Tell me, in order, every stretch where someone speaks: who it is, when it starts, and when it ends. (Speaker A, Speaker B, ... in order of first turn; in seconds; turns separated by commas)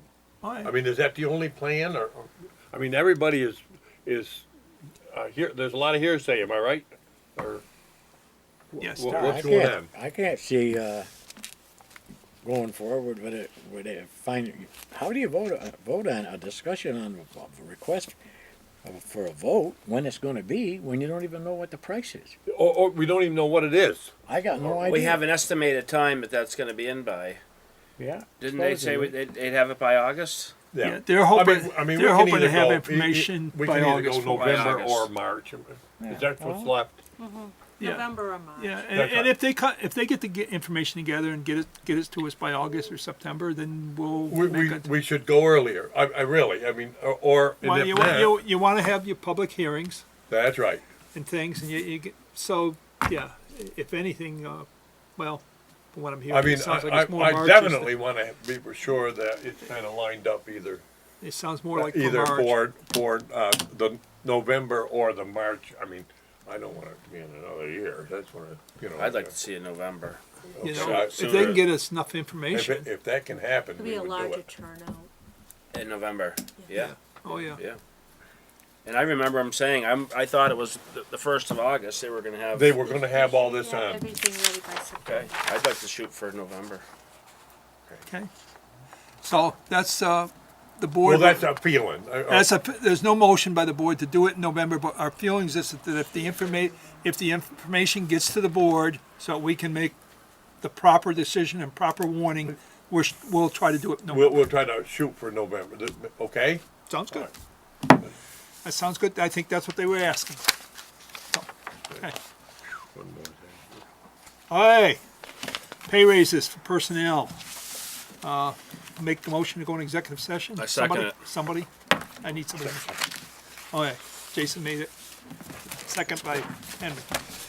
Speaker A: 0.4-0.7, Speaker B: 0.6-4.5, Speaker B: 5.1-7.7, Speaker A: 8.8-9.4, Speaker B: 8.8-9.9, Speaker C: 9.1-11.1, Speaker C: 12.4-18.2, Speaker C: 18.8-22.4, Speaker B: 22.5-24.1, Speaker C: 24.3-25.3, Speaker D: 24.7-27.4, Speaker C: 28.0-29.2, Speaker D: 28.4-30.5, Speaker B: 30.7-37.0, Speaker A: 30.8-34.8, Speaker D: 34.3-35.1, Speaker C: 36.0-36.8, Speaker E: 37.2-38.8, Speaker A: 37.8-44.9, Speaker B: 38.9-39.4, Speaker B: 44.3-48.4, Speaker A: 47.6-50.0, Speaker B: 50.3-50.8, Speaker A: 51.1-58.0, Speaker B: 56.3-60.8, Speaker A: 61.2-62.6, Speaker B: 61.7-69.3, Speaker D: 69.0-71.5, Speaker B: 70.5-71.7, Speaker A: 70.6-72.9, Speaker B: 72.5-74.5, Speaker E: 73.8-75.1, Speaker D: 75.7-77.8, Speaker E: 76.6-76.9, Speaker A: 76.9-77.6, Speaker D: 78.8-82.7, Speaker B: 82.5-84.1, Speaker E: 82.8-85.5, Speaker D: 85.0-86.8, Speaker A: 89.2-91.5, Speaker B: 91.0-92.5, Speaker A: 92.3-100.0, Speaker A: 100.6-104.5, Speaker B: 104.1-107.3, Speaker A: 106.9-107.3, Speaker A: 108.6-110.5, Speaker A: 111.3-112.2, Speaker B: 112.9-113.6, Speaker A: 114.5-115.0, Speaker A: 115.9-117.4, Speaker A: 118.2-121.7, Speaker D: 120.6-121.2, Speaker A: 122.2-122.9, Speaker A: 123.7-124.9, Speaker A: 125.9-127.2